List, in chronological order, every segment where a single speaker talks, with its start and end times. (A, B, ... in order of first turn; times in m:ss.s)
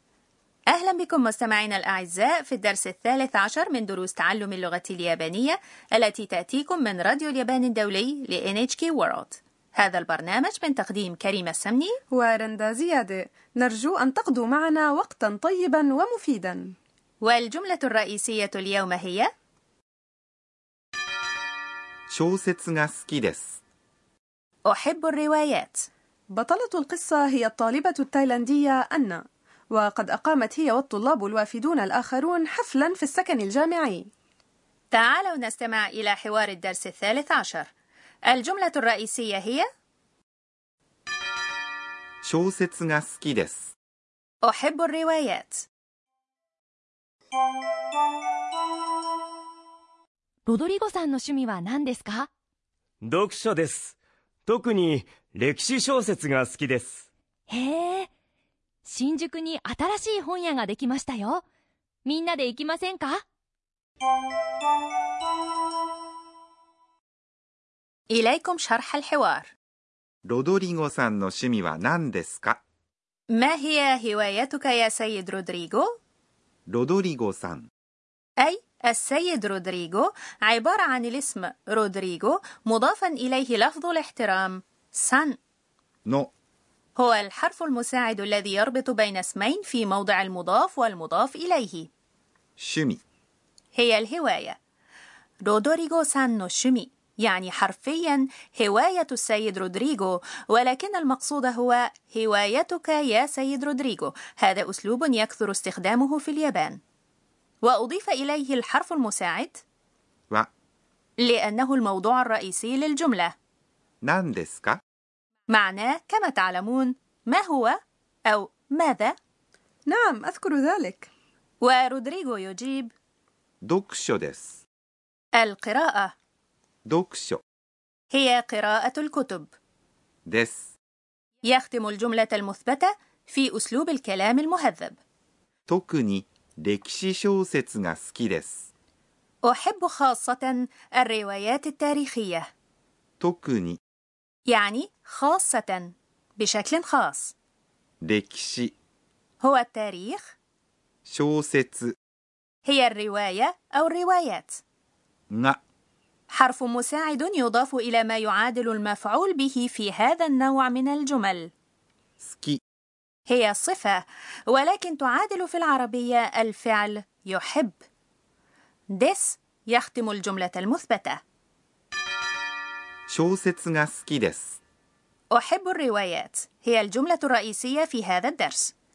0:00.7-0:12.0 A
0:12.1-0:16.7 B
0:17.2-0:19.3 A
0:22.1-0:23.6 C
0:24.7-0:25.9 A
0:26.3-0:34.1 B
0:34.9-0:37.7 A
0:38.3-0:39.7 A
0:42.2-0:43.7 C
0:44.4-0:45.7 A
0:50.5-0:52.3 D
0:53.0-0:57.1 E
0:57.5-0:58.1 D
0:58.8-1:01.4 D
1:02.0-1:03.2 D
1:08.1-1:09.5 A
1:10.2-1:12.6 C
1:13.3-1:15.9 A
1:16.7-1:17.7 C
1:18.4-1:25.4 A
1:26.1-1:26.3 C
1:27.0-1:31.9 A
1:32.6-1:33.0 C
1:33.7-1:34.6 A
1:35.4-1:46.8 A
1:47.6-1:49.6 A
1:51.2-1:53.3 A
1:54.0-1:54.8 C
1:55.5-1:59.2 A
1:59.9-2:01.1 B
2:01.6-2:02.9 A
2:03.6-2:04.6 C
2:05.4-2:06.1 A
2:06.9-2:07.4 C
2:08.1-2:09.5 A
2:10.3-2:10.7 C
2:11.4-2:15.0 A
2:15.7-2:18.7 C
2:19.4-2:22.5 A
2:23.2-2:23.8 C
2:24.5-2:27.3 A
2:28.0-2:28.7 C
2:29.4-2:30.3 A
2:31.1-2:32.0 C
2:32.6-2:34.6 A
2:35.3-2:35.6 C
2:36.3-2:41.5 A
2:42.2-2:42.6 C
2:43.3-2:47.8 A
2:48.9-2:51.2 A
2:53.1-2:54.6 C
2:55.3-2:58.7 A